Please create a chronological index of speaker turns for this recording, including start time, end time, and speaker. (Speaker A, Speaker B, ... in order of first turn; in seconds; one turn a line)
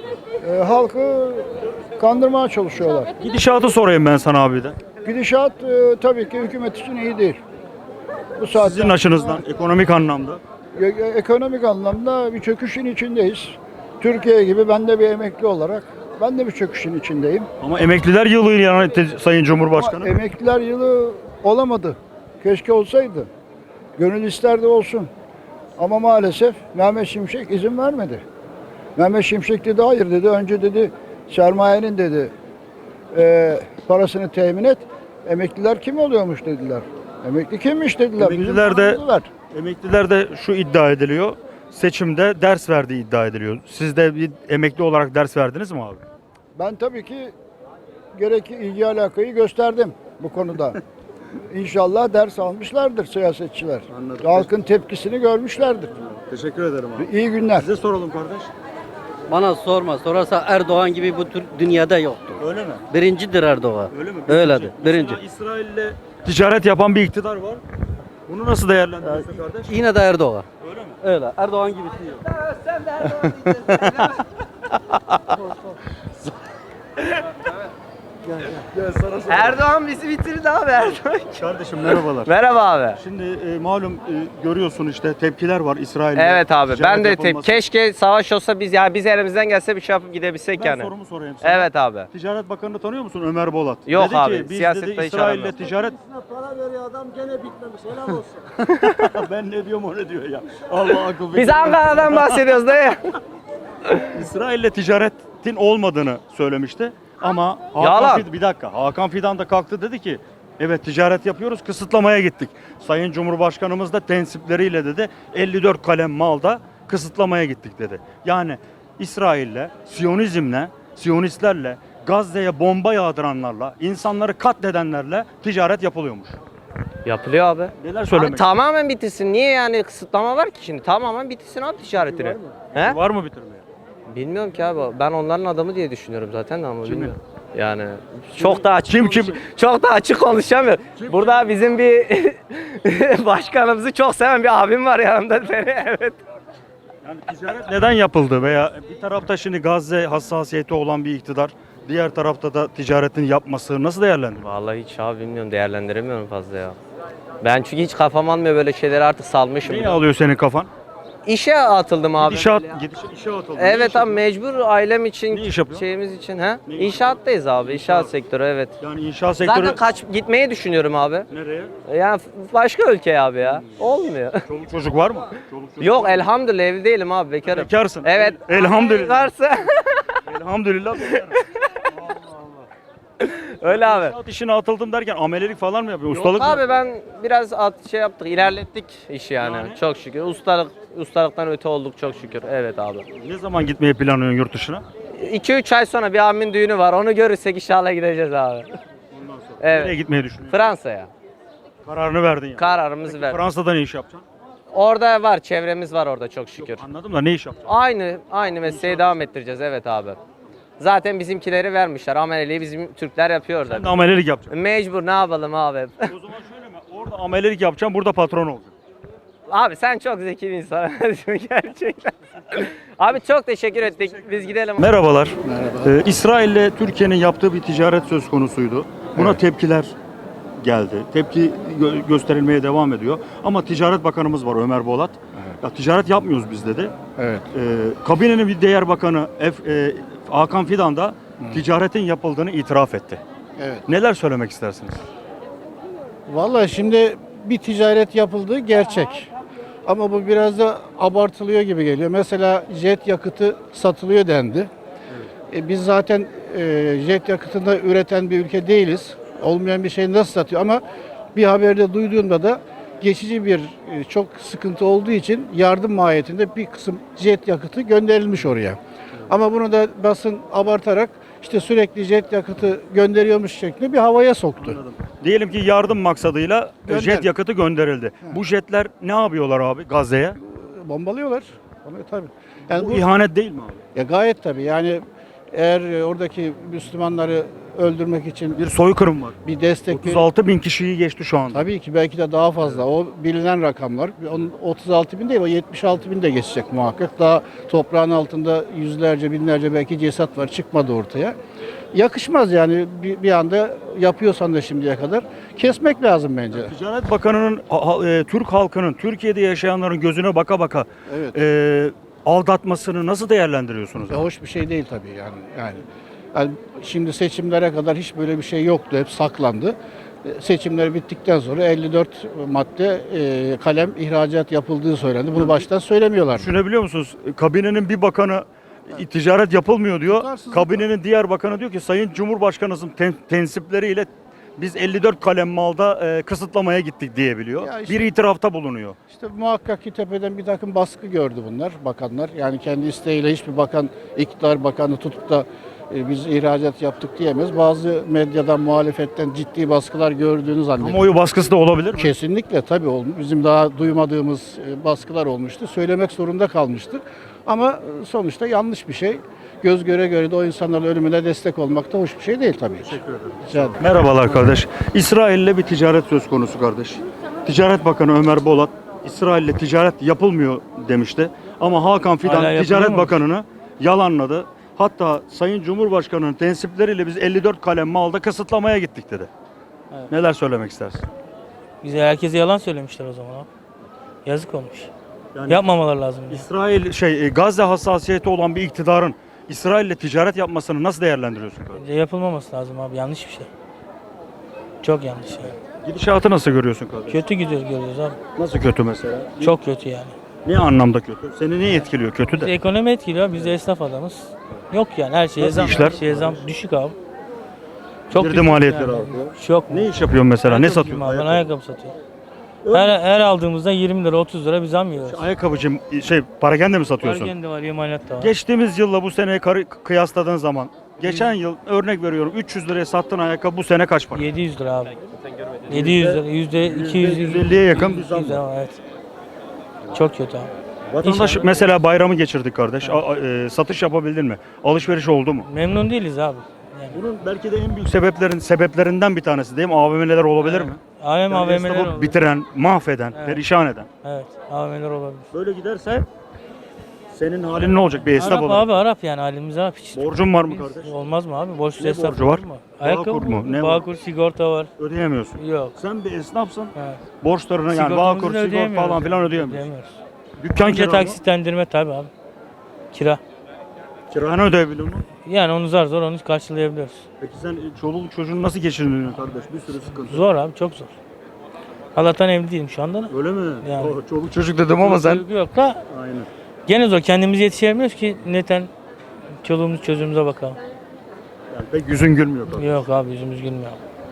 Speaker A: 0.4-3.1
Speaker B: 3.2-4.8
Speaker A: 5.0-7.4
Speaker A: 8.4-9.4
Speaker B: 8.5-10.4
Speaker A: 10.7-17.5
Speaker B: 17.6-20.1
Speaker A: 19.8-23.3
Speaker A: 24.0-25.1
Speaker A: 25.8-28.2
Speaker A: 29.0-32.3
Speaker A: 33.1-39.3
Speaker B: 38.2-39.0
Speaker B: 39.5-46.0
Speaker A: 46.5-47.3
Speaker A: 48.1-50.8
Speaker A: 51.5-55.9
Speaker B: 53.9-54.5
Speaker B: 56.0-58.5
Speaker A: 57.0-57.7
Speaker C: 59.3-65.2
Speaker B: 62.4-62.8
Speaker B: 63.9-67.6
Speaker B: 68.3-69.8
Speaker C: 69.2-70.5
Speaker B: 70.6-71.0
Speaker C: 71.0-72.2
Speaker B: 78.7-79.6
Speaker D: 79.3-81.4
Speaker B: 81.3-82.3
Speaker D: 82.2-83.0
Speaker B: 83.0-87.6
Speaker D: 86.1-92.1
Speaker B: 90.5-102.6
Speaker D: 93.8-95.7
Speaker D: 98.7-99.1
Speaker D: 101.3-103.0
Speaker B: 104.1-126.4
Speaker D: 107.8-108.3
Speaker D: 127.0-133.0
Speaker B: 127.8-128.5
Speaker B: 132.0-133.6
Speaker D: 134.1-146.2
Speaker B: 136.8-137.1
Speaker B: 138.3-139.4
Speaker B: 140.9-141.5
Speaker B: 147.0-154.5
Speaker D: 154.4-156.8
Speaker D: 157.4-160.0
Speaker B: 159.6-160.7
Speaker D: 161.2-162.8
Speaker B: 162.2-164.2
Speaker D: 163.6-168.7
Speaker B: 165.3-165.8
Speaker B: 166.7-168.1
Speaker B: 168.8-169.8
Speaker D: 169.4-171.3
Speaker B: 171.3-171.7
Speaker D: 171.8-174.4
Speaker B: 173.5-173.8
Speaker B: 174.4-176.3
Speaker D: 175.8-180.2
Speaker B: 177.4-179.3
Speaker B: 180.2-182.6
Speaker D: 181.1-181.4
Speaker D: 183.2-184.2
Speaker B: 183.6-186.7
Speaker D: 186.1-193.1
Speaker B: 189.4-189.8
Speaker B: 193.1-194.8
Speaker D: 195.1-198.7
Speaker B: 199.1-200.7
Speaker D: 199.6-201.1
Speaker B: 201.8-204.2
Speaker D: 202.6-203.4
Speaker D: 204.7-206.8
Speaker B: 206.6-207.8
Speaker D: 207.7-210.2
Speaker B: 208.6-209.2
Speaker D: 210.8-213.9
Speaker B: 213.7-214.5
Speaker D: 214.5-216.1
Speaker B: 216.0-218.7
Speaker D: 219.5-224.8
Speaker B: 224.8-229.9
Speaker E: 225.4-225.9
Speaker B: 230.6-236.9
Speaker E: 237.2-237.5
Speaker B: 237.5-243.2
Speaker E: 243.6-243.8
Speaker B: 243.8-245.0
Speaker E: 246.3-249.3
Speaker E: 249.8-254.7
Speaker E: 255.5-260.8
Speaker E: 261.3-274.8
Speaker B: 274.6-280.4
Speaker E: 276.9-277.3
Speaker E: 280.4-283.1
Speaker B: 282.7-283.8
Speaker E: 283.9-288.6
Speaker B: 288.5-291.7
Speaker E: 289.4-290.3
Speaker E: 291.5-301.4
Speaker E: 301.9-306.7
Speaker B: 306.5-314.2
Speaker E: 311.1-311.4
Speaker E: 314.1-326.5
Speaker B: 326.4-339.0
Speaker E: 330.0-330.9
Speaker E: 337.6-338.0
Speaker E: 339.1-351.1
Speaker B: 350.8-352.1
Speaker E: 351.9-363.9
Speaker B: 362.8-379.3
Speaker F: 372.2-373.2
Speaker B: 380.1-381.0
Speaker F: 381.8-383.5
Speaker F: 384.2-384.9
Speaker B: 385.3-385.6
Speaker F: 385.5-386.4
Speaker B: 386.3-391.9
Speaker F: 391.8-393.5
Speaker F: 394.8-395.5
Speaker B: 395.8-397.2
Speaker F: 397.1-398.2
Speaker B: 398.4-399.6
Speaker F: 399.4-400.1
Speaker B: 400.4-402.5
Speaker F: 402.3-407.0
Speaker B: 405.4-406.4
Speaker F: 408.1-409.9
Speaker B: 408.1-411.5
Speaker F: 410.4-411.9
Speaker B: 412.6-413.0
Speaker F: 412.7-415.2
Speaker B: 415.0-417.3
Speaker F: 417.0-418.3
Speaker B: 418.2-424.3
Speaker F: 421.0-421.3
Speaker F: 424.1-425.0
Speaker F: 425.7-428.8
Speaker B: 425.7-428.4
Speaker F: 429.9-430.5
Speaker B: 430.9-435.5
Speaker F: 431.0-431.8
Speaker F: 435.4-437.0
Speaker B: 436.9-443.9
Speaker F: 440.4-442.2
Speaker F: 443.1-443.4
Speaker F: 444.0-445.2
Speaker B: 445.3-446.1
Speaker B: 447.1-448.8
Speaker F: 448.1-454.7
Speaker B: 449.9-450.9
Speaker B: 451.8-453.9
Speaker B: 454.8-459.7
Speaker F: 455.4-455.8
Speaker F: 456.7-457.0
Speaker F: 457.7-460.0
Speaker B: 460.4-461.2
Speaker F: 460.5-462.1
Speaker F: 462.9-463.2
Speaker B: 464.1-465.1
Speaker F: 465.2-467.1
Speaker B: 467.2-470.3
Speaker F: 470.1-470.9
Speaker F: 471.9-473.9
Speaker B: 473.1-475.2
Speaker F: 474.8-475.8
Speaker B: 475.9-476.3
Speaker F: 476.7-478.7
Speaker F: 479.4-480.6
Speaker B: 481.5-482.8
Speaker F: 482.5-483.8